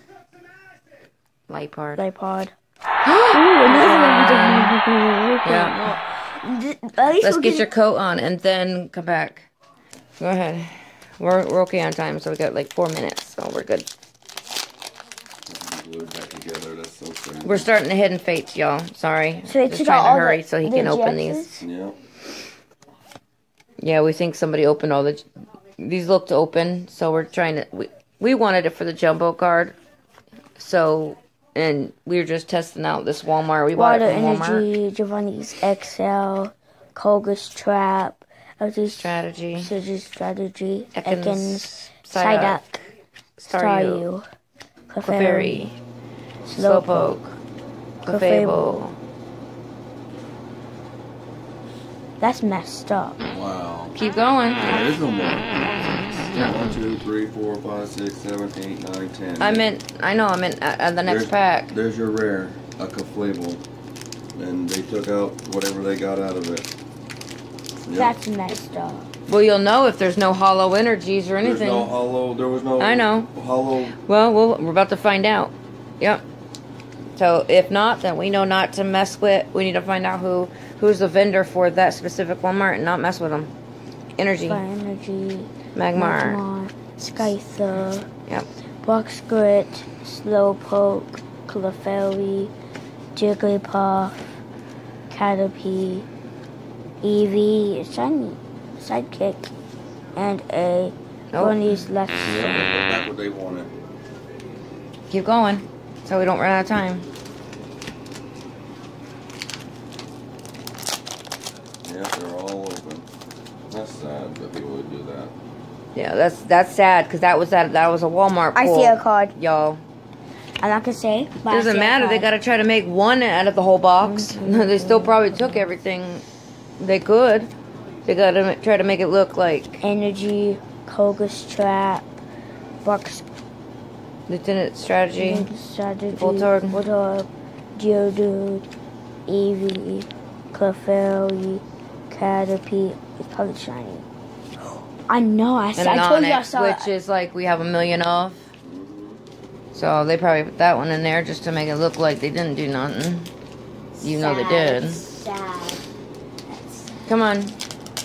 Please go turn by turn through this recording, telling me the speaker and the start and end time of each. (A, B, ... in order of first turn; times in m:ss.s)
0:01.5-0:02.0 A
0:02.0-0:02.5 B
0:03.0-0:04.8 A
0:03.3-0:07.7 B
0:05.4-0:05.9 A
0:07.2-0:09.5 A
0:10.2-0:13.9 A
0:15.5-0:17.7 C
0:17.4-0:21.5 A
0:19.4-0:21.6 B
0:21.6-0:22.0 C
0:23.8-0:25.2 A
0:25.8-0:29.8 A
0:30.6-0:34.6 A
0:33.7-0:42.8 B
0:39.0-0:39.7 A
0:41.0-0:42.6 A
0:43.4-0:44.0 A
0:43.4-0:44.2 B
0:44.9-0:45.7 B
0:45.0-0:45.8 A
0:46.4-0:47.2 B
0:46.5-0:47.4 A
0:48.0-0:49.0 A
0:48.0-0:48.8 B
0:52.2-0:53.2 B
0:53.3-0:53.9 C
0:53.9-0:54.8 A
0:54.6-0:59.7 C
0:59.4-1:01.7 A
1:01.0-1:03.6 C
1:04.3-1:06.7 C
1:07.8-1:08.1 C
1:07.9-1:09.1 B
1:09.3-1:11.9 A
1:11.4-1:14.0 C
1:12.8-1:13.3 A
1:14.0-1:16.2 A
1:17.2-1:23.5 A
1:24.2-1:24.6 A
1:24.3-1:28.1 B
1:25.7-1:26.4 A
1:28.8-1:32.5 B
1:33.1-1:34.4 B
1:35.1-1:36.1 B
1:37.0-1:39.5 B
1:40.1-1:42.7 B
1:41.3-1:41.8 A
1:42.2-1:43.7 C
1:45.1-1:47.1 A
1:51.8-1:53.0 C
1:53.7-1:55.3 C
1:55.9-1:59.8 A
1:58.5-1:59.3 B
2:00.6-2:02.3 B
2:01.5-2:06.2 A
2:04.0-2:05.7 B
2:06.8-2:07.5 A
2:08.0-2:09.8 A
2:09.8-2:12.2 B
2:12.8-2:13.3 B
2:14.3-2:15.5 A
2:15.2-2:18.7 B
2:16.1-2:16.8 A
2:19.3-2:24.1 B
2:25.1-2:26.9 B
2:25.8-2:28.4 A
2:28.6-2:29.2 C
2:29.7-2:33.3 A
2:34.0-2:35.8 B
2:34.0-2:35.0 A
2:36.5-2:37.1 B
2:37.1-2:37.6 A